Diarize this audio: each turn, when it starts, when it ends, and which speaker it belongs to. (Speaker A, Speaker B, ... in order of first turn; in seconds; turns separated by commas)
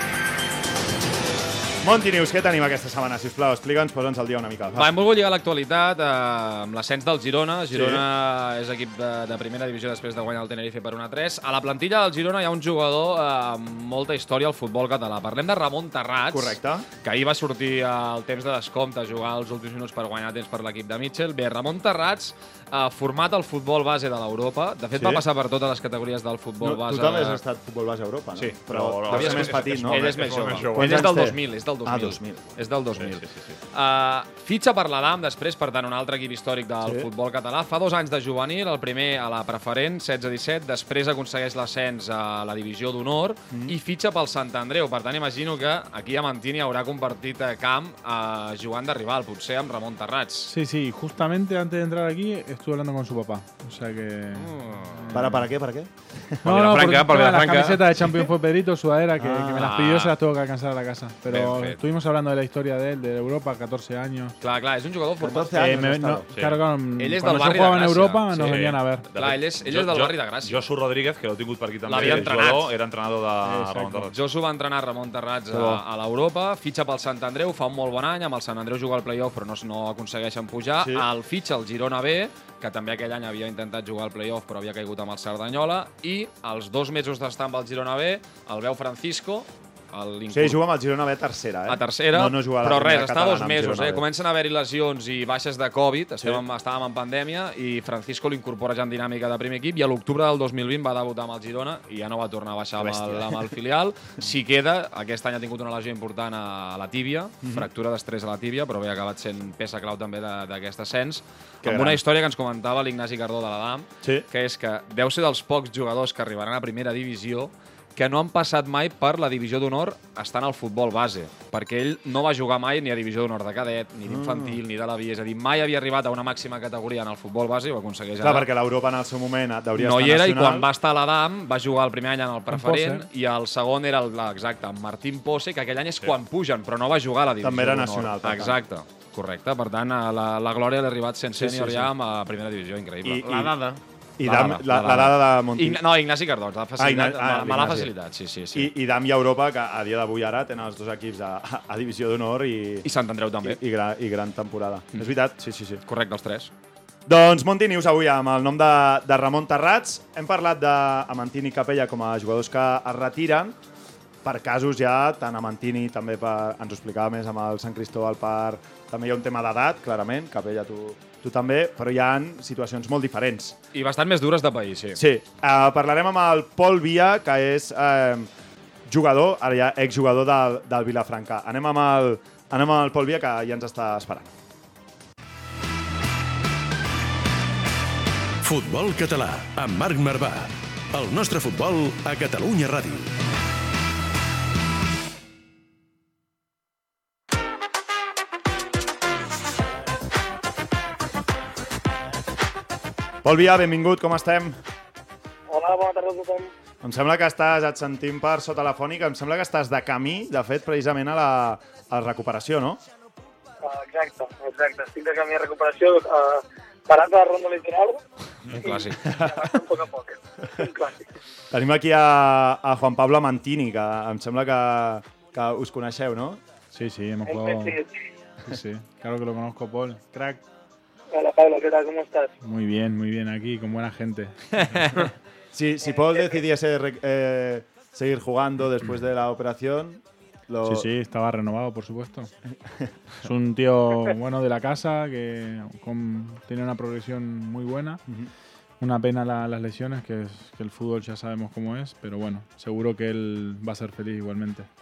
Speaker A: 1.8-4.9, Speaker B: 4.7-27.4, Speaker A: 7.7-8.0, Speaker A: 16.3-16.9, Speaker A: 24.9-25.2, Speaker A: 26.6-32.6, Speaker C: 28.4-31.1, Speaker B: 29.1-50.5, Speaker C: 33.0-33.6, Speaker A: 43.5-43.8, Speaker D: 50.5-55.5, Speaker B: 54.4-55.2, Speaker A: 55.1-55.9, Speaker D: 56.4-64.3, Speaker B: 56.5-57.8, Speaker A: 59.2-59.7, Speaker B: 59.6-60.1, Speaker B: 61.3-61.8, Speaker B: 64.4-65.5, Speaker A: 65.2-66.2, Speaker D: 65.5-69.0, Speaker C: 66.3-66.6, Speaker B: 67.0-70.6, Speaker C: 68.3-74.2, Speaker B: 71.9-72.7, Speaker A: 72.0-72.3, Speaker D: 73.4-74.1, Speaker B: 74.1-90.6, Speaker A: 75.5-75.8, Speaker A: 80.8-81.1, Speaker A: 90.3-94.0, Speaker B: 91.7-128.5, Speaker A: 102.8-103.5, Speaker A: 107.4-107.7, Speaker A: 111.6-112.0, Speaker A: 124.0-124.6, Speaker A: 128.2-130.7, Speaker B: 129.8-148.7, Speaker D: 132.5-133.1, Speaker A: 137.4-138.6, Speaker A: 141.4-141.9, Speaker A: 143.0-143.5, Speaker A: 144.2-145.8, Speaker A: 146.8-147.9, Speaker A: 148.5-152.9, Speaker B: 152.8-153.6, Speaker A: 153.4-155.8, Speaker B: 155.8-156.5, Speaker A: 157.1-163.6, Speaker A: 164.2-173.6, Speaker B: 173.7-175.0, Speaker A: 174.9-178.3, Speaker A: 178.8-184.3, Speaker E: 188.4-193.1, Speaker A: 203.2-204.6, Speaker F: 205.5-206.5, Speaker A: 206.8-212.8, Speaker F: 213.6-218.0, Speaker B: 218.5-219.1, Speaker F: 218.6-221.1, Speaker A: 219.0-219.4, Speaker A: 221.5-226.4, Speaker D: 226.7-227.8, Speaker F: 227.3-227.9, Speaker D: 228.4-230.4, Speaker F: 231.1-232.3, Speaker D: 232.4-235.1, Speaker A: 235.5-240.9, Speaker F: 235.8-236.4, Speaker D: 240.6-242.3, Speaker D: 243.2-248.0, Speaker D: 248.8-254.7